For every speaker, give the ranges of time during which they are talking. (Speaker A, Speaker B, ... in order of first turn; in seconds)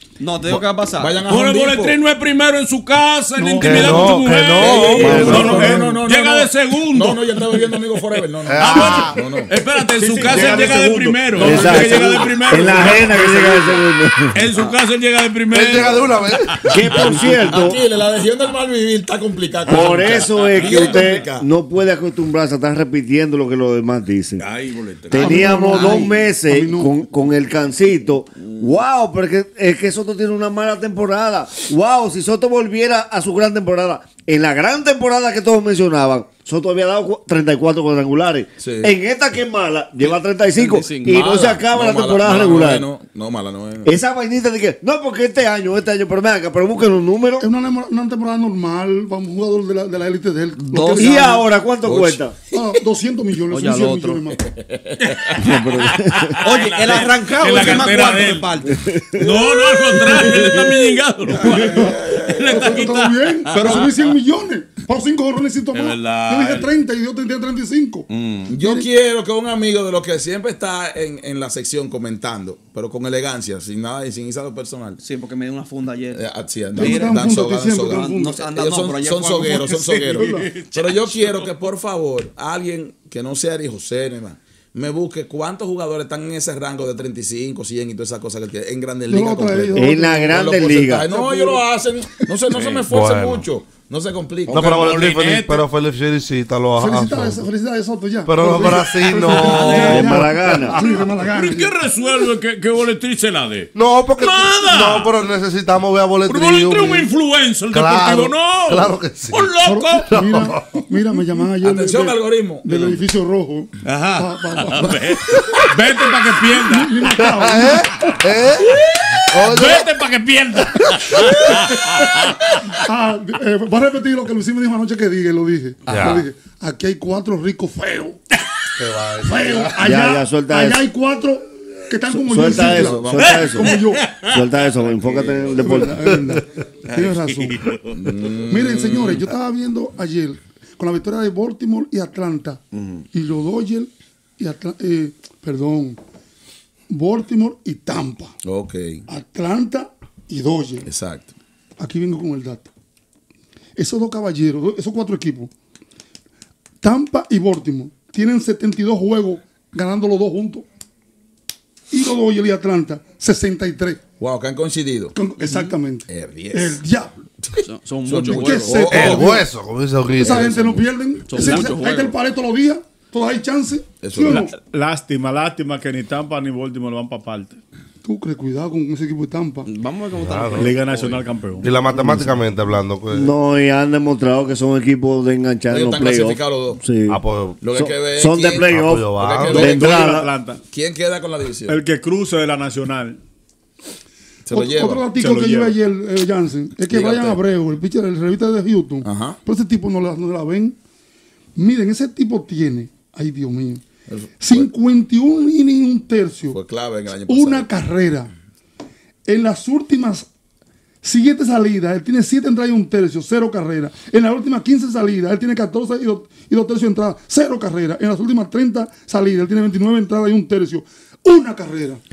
Speaker A: 0.2-1.2, 40.1-41.3, 50.6-51.4, 53.5-54.3, 56.4-58.9, 63.5-63.9, 75.0-77.3, 77.9-79.7, 167.6-169.4, 171.3-172.1, 179.6-181.3
Speaker B: 1.0-2.0, 4.5-9.5, 17.1-21.5, 38.6-38.9, 40.8-43.9, 54.6-54.9, 68.5-75.0, 76.1-94.8, 111.6-113.0, 132.4-133.5, 137.9-139.3, 148.4-149.1, 150.8-151.3, 164.2-165.2, 166.1-166.8, 168.0-169.4, 170.2-170.8, 171.3-171.7, 174.0-174.5, 185.7-186.8, 187.6-191.8, 194.4-195.1, 196.9-197.4, 199.0-199.4, 204.1-204.7, 206.5-207.7
Speaker C: 1.2-17.8, 19.6-21.3, 24.4-26.1, 55.0-58.5, 59.1-63.9, 65.7-66.7, 68.1-68.5, 79.5-81.4, 92.5-92.8, 94.5-95.6, 99.2-105.1, 106.2-110.5, 113.8-117.7, 118.7-122.6, 125.9-126.2, 133.1-135.6, 136.9-138.1, 142.7-143.0
Speaker D: 3.4-3.9, 4.8-6.0, 25.1-26.9, 47.4-51.4, 52.5-54.4, 60.0-60.8, 61.5-68.0, 68.6-68.9, 76.7-78.4, 79.9-80.5, 89.1-90.5, 91.0-92.3, 96.8-102.3, 109.6-115.6, 116.5-118.1, 121.3-122.0, 122.7-128.2, 129.2-134.1, 135.5-137.7, 138.4-142.6, 143.1-146.0, 146.9-148.3, 149.1-150.9, 151.8-152.7, 153.8-155.5, 156.8-160.6, 161.9-164.0, 165.1-167.1, 168.2-169.4, 170.2-174.5, 178.0-179.7, 194.5-200.8, 201.6-203.8, 204.4-206.6, 207.3-208.3, 209.3-210.3, 211.0-222.0
Speaker E: 3.6-5.6, 8.4-9.2, 15.5-16.6, 92.9-93.5, 94.5-97.5, 98.2-100.1, 103.7-107.1, 107.7-109.5, 110.1-110.8, 117.2-119.9, 125.9-126.2, 128.8-129.8, 168.9-170.7, 180.1-180.7, 181.6-183.3, 187.1-187.7, 188.6-189.8
Speaker F: 5.0-5.3, 11.4-14.3, 16.7-17.8, 19.7-24.5, 25.1-42.9, 43.8-47.5, 51.0-52.3, 55.4-56.4, 58.8-59.5, 89.8-91.0, 99.8-100.8, 129.8-130.8, 132.1-136.1, 183.1-187.2, 187.7-190.3
Speaker G: 5.0-6.0, 9.9-12.8, 174.2-177.6, 180.5-181.7, 189.6-190.6, 191.7-193.2, 195.1-195.8